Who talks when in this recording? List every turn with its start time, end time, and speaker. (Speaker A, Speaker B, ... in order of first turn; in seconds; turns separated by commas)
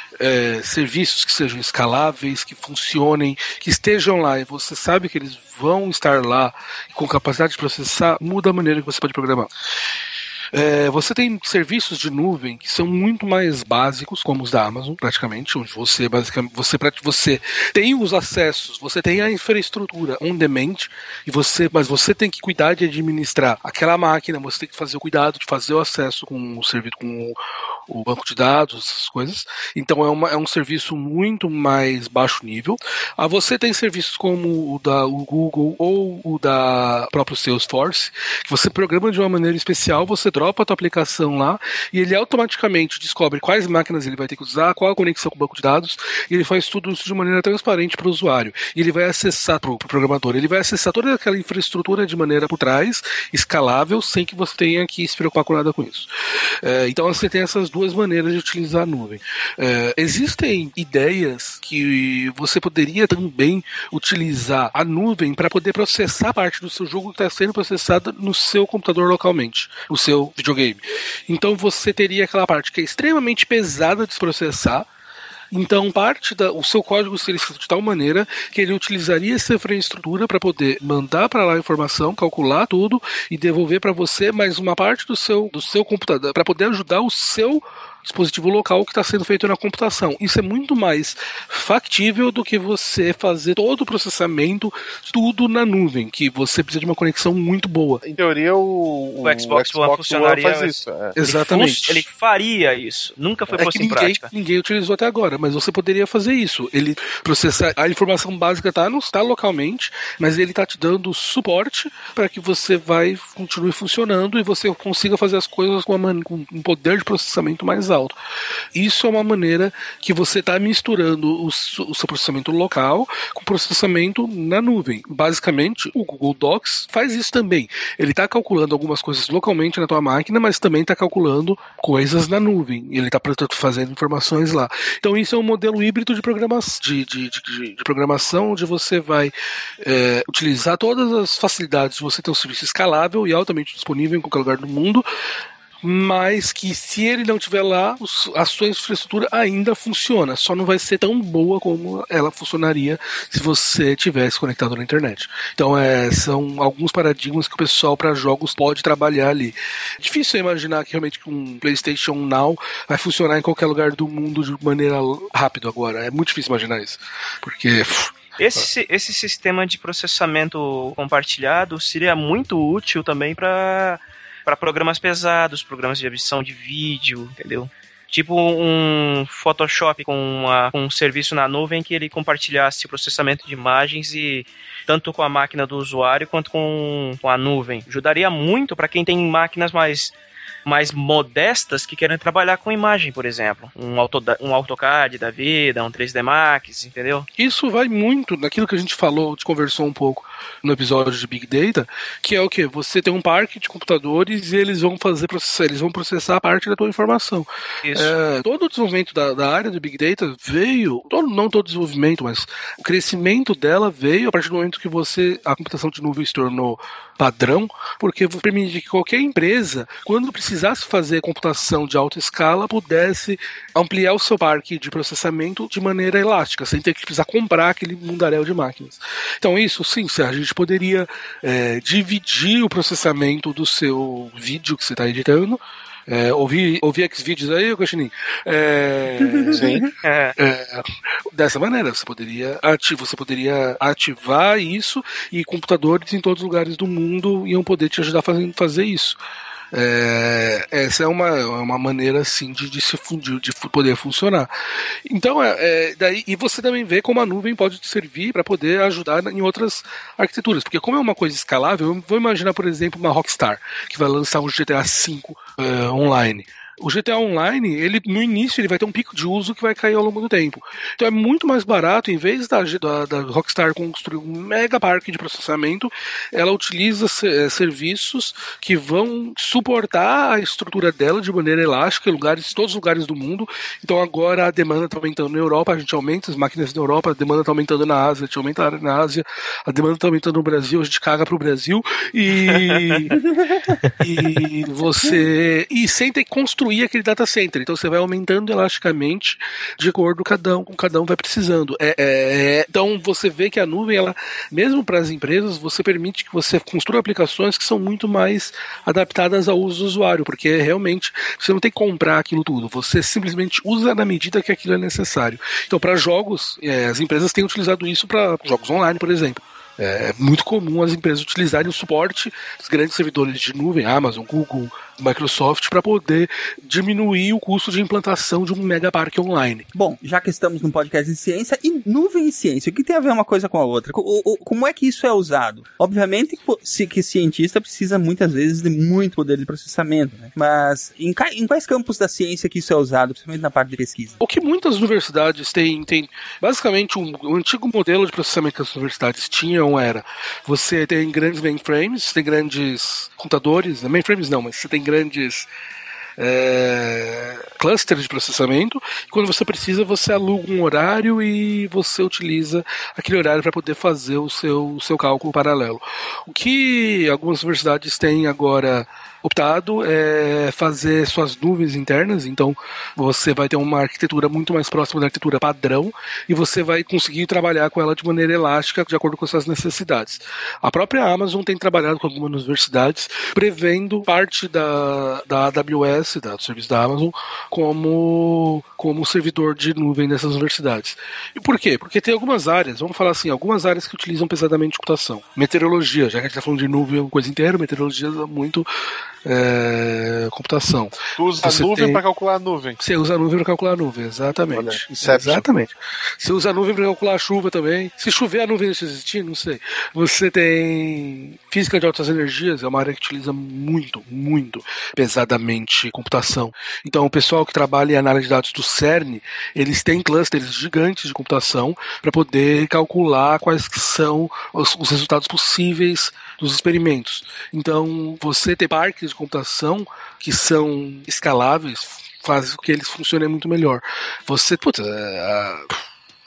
Speaker A: 0.2-9.5, Speaker A: 10.5-27.4, Speaker A: 27.9-56.1, Speaker A: 56.6-74.9, Speaker A: 75.5-98.0, Speaker B: 98.0-101.2, Speaker C: 99.2-104.3, Speaker A: 101.2-102.1, Speaker A: 103.5-118.2, Speaker A: 118.8-145.1, Speaker A: 145.8-168.7, Speaker C: 168.4-190.2, Speaker C: 190.7-197.3, Speaker A: 197.4-239.7, Speaker C: 207.8-208.1, Speaker D: 239.4-239.8, Speaker B: 239.5-239.8, Speaker C: 240.0-240.3, Speaker A: 240.4-249.2, Speaker A: 249.7-254.5, Speaker A: 255.1-293.2, Speaker C: 292.5-292.9, Speaker A: 294.0-329.7, Speaker D: 329.7-344.2, Speaker A: 344.2-355.5, Speaker A: 356.2-398.7, Speaker A: 399.2-402.0, Speaker B: 401.2-402.8, Speaker A: 402.8-435.8, Speaker B: 404.5-405.5